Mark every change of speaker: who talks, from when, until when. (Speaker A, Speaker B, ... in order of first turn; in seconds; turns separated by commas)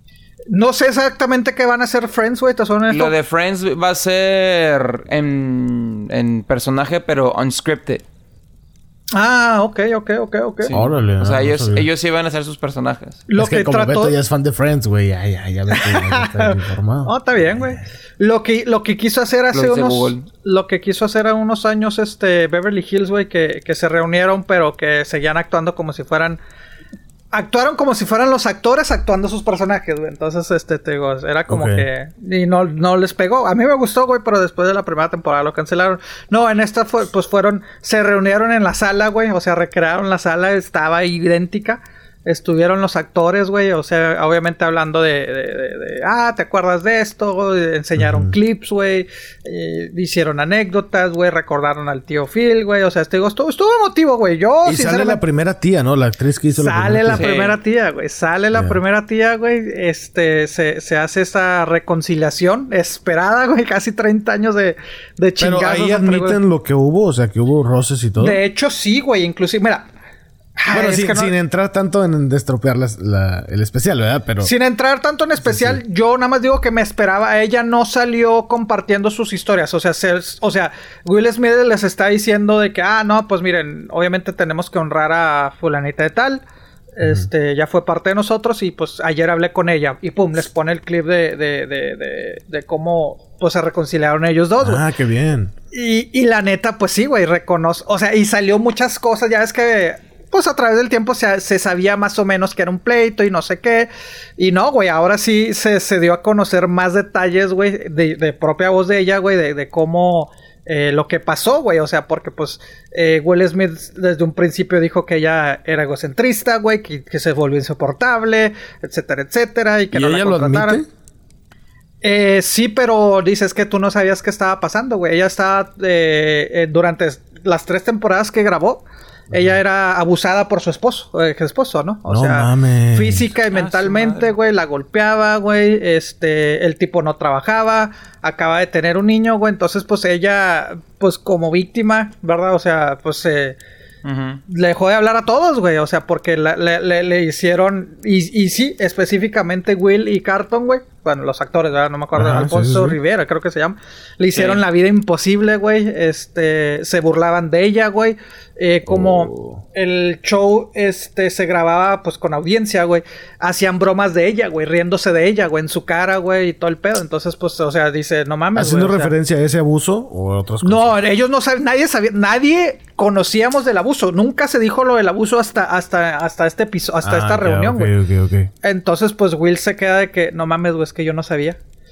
Speaker A: 0.5-3.1, Speaker B: 2.9-8.0, Speaker A: 9.1-10.7, Speaker B: 10.6-13.2, Speaker C: 10.7-11.9, Speaker A: 13.3-14.2, Speaker C: 13.4-17.8, Speaker A: 15.7-26.4, Speaker B: 19.5-20.3, Speaker A: 27.3-55.2, Speaker C: 31.5-31.8, Speaker C: 48.0-48.3, Speaker C: 54.6-57.3, Speaker A: 56.6-66.4, Speaker B: 57.2-57.6, Speaker C: 58.5-58.8, Speaker C: 65.4-68.4, Speaker A: 68.2-69.9, Speaker A: 70.6-71.3, Speaker C: 70.7-74.5, Speaker A: 74.4-86.4, Speaker C: 75.4-75.8, Speaker A: 87.0-94.8, Speaker C: 87.0-87.3, Speaker C: 94.6-95.5, Speaker A: 95.7-120.8, Speaker C: 119.9-120.8, Speaker A: 122.0-143.6, Speaker C: 129.3-129.6, Speaker C: 132.1-133.3, Speaker B: 133.5-134.3, Speaker B: 144.0-144.4, Speaker A: 144.5-169.1, Speaker C: 152.2-153.0, Speaker B: 154.3-154.6, Speaker C: 158.9-159.6, Speaker C: 168.5-171.0, Speaker A: 170.6-177.9, Speaker C: 177.0-178.5, Speaker A: 178.6-181.6